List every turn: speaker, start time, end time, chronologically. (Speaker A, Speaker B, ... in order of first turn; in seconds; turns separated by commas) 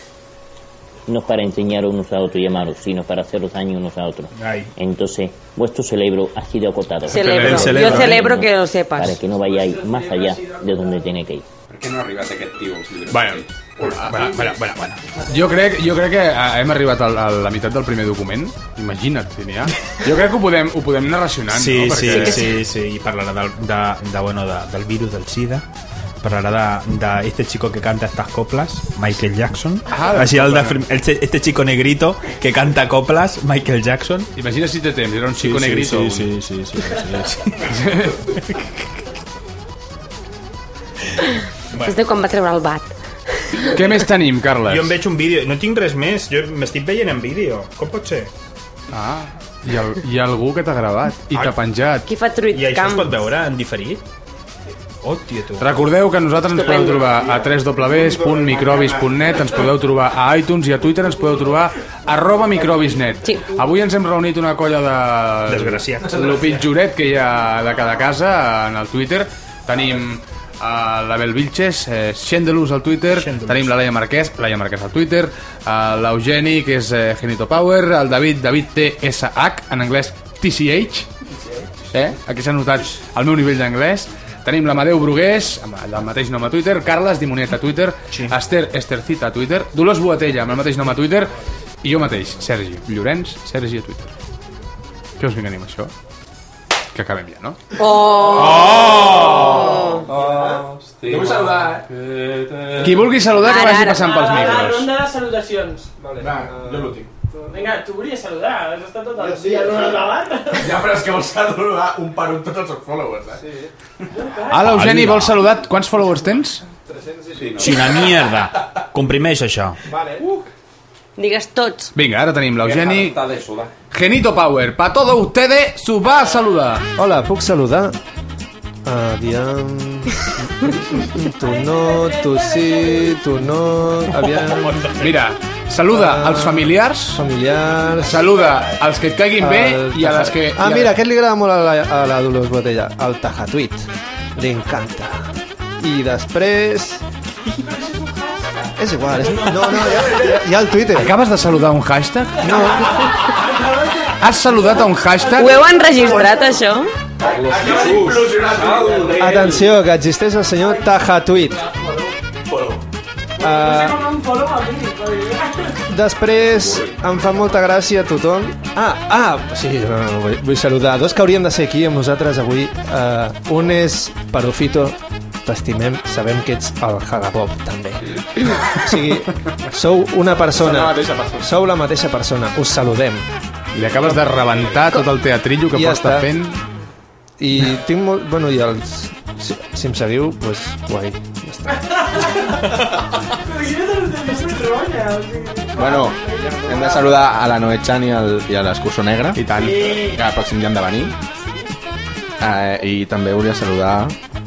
Speaker A: 1.1-11.4, Speaker B: 4.3-4.7, Speaker C: 7.1-9.2, Speaker D: 7.1-8.1, Speaker B: 7.2-8.3, Speaker E: 11.7-13.5, Speaker D: 13.1-14.6, Speaker B: 14.1-15.0, Speaker D: 15.3-22.5, Speaker B: 21.5-25.6, Speaker B: 26.2-34.3, Speaker D: 29.9-30.8, Speaker D: 34.4-36.3, Speaker B: 35.4-36.3, Speaker F: 36.1-37.1, Speaker D: 37.6-38.2, Speaker C: 41.8-42.9, Speaker C: 43.4-43.7, Speaker D: 43.7-45.0, Speaker B: 44.6-48.3, Speaker D: 48.9-52.1, Speaker C: 52.1-53.1, Speaker B: 52.5-54.0, Speaker B: 55.0-55.7, Speaker D: 55.6-81.1, Speaker C: 56.5-57.0, Speaker B: 65.5-66.4, Speaker B: 73.1-73.7, Speaker D: 81.9-94.1, Speaker D: 95.2-95.9, Speaker D: 96.9-97.6, Speaker C: 97.8-100.1, Speaker B: 98.6-99.4, Speaker E: 100.1-102.9, Speaker G: 101.1-101.8, Speaker D: 102.8-104.9, Speaker C: 103.4-104.4, Speaker H: 104.5-105.8, Speaker I: 106.0-107.1, Speaker G: 106.3-106.9, Speaker H: 107.8-110.6, Speaker I: 109.2-109.9, Speaker G: 110.6-113.4, Speaker I: 113.3-113.7, Speaker D: 114.5-116.6, Speaker B: 114.7-115.3, Speaker I: 116.9-117.3, Speaker E: 117.3-117.8, Speaker B: 117.6-119.8, Speaker I: 119.9-120.2, Speaker C: 121.2-121.9, Speaker D: 121.9-123.2, Speaker E: 122.6-123.7, Speaker D: 123.9-126.8, Speaker I: 127.0-127.9, Speaker I: 128.8-134.9, Speaker D: 134.9-137.2, Speaker I: 135.9-138.2, Speaker D: 138.0-140.9, Speaker I: 139.4-145.2, Speaker I: 145.8-147.0, Speaker I: 148.8-151.1, Speaker D: 150.9-152.5, Speaker I: 152.4-152.9, Speaker D: 154.2-155.6, Speaker C: 155.4-156.9, Speaker E: 157.2-159.3, Speaker G: 157.5-159.2, Speaker I: 159.1-161.7, Speaker H: 163.4-163.7, Speaker I: 163.4-164.2, Speaker H: 164.4-165.1, Speaker I: 165.9-183.3, Speaker E: 166.5-167.0, Speaker D: 183.7-186.6, Speaker I: 185.7-186.3, Speaker I: 187.4-191.8, Speaker H: 193.6-196.7, Speaker G: 195.8-196.1, Speaker F: 195.8-196.1, Speaker G: 196.7-197.3, Speaker F: 196.7-199.4, Speaker D: 199.3-199.9, Speaker H: 199.6-200.2, Speaker F: 200.2-201.1, Speaker F: 202.4-204.1